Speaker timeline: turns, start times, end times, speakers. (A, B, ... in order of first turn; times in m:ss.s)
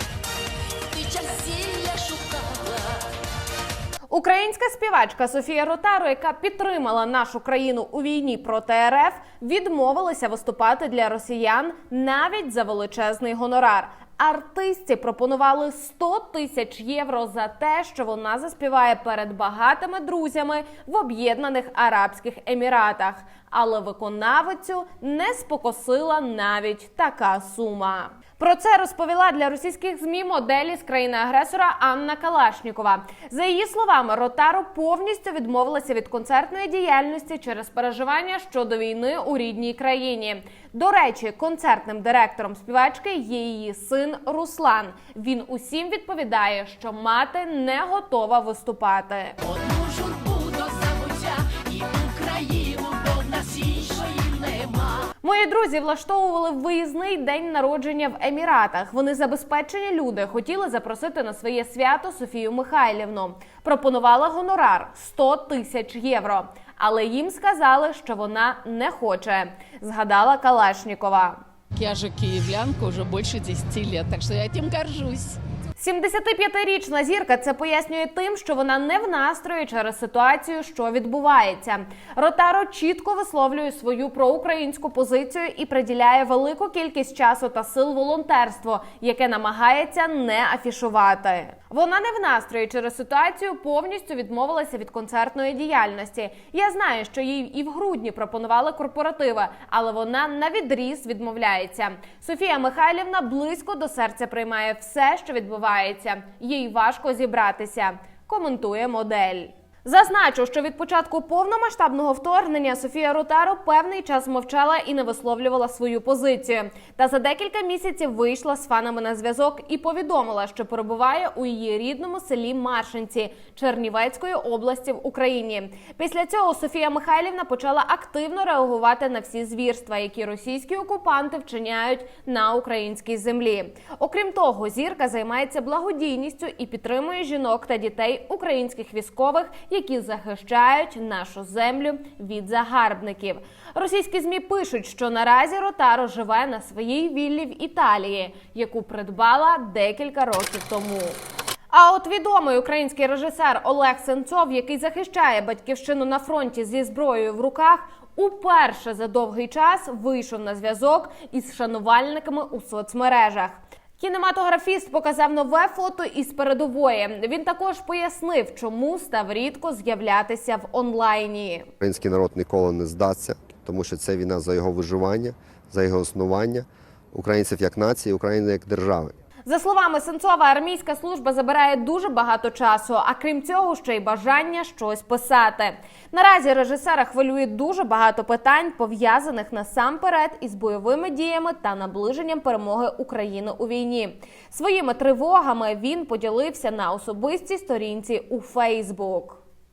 0:00.9-0:03.1 A
0:04.1-0:49.4 B
0:49.4-0:55.1 A
0:55.2-1:11.4 B
1:11.7-1:15.4 A
1:15.8-2:31.2 B
2:31.7-2:51.7 B
2:51.8-2:59.1 C
2:59.5-3:19.4 B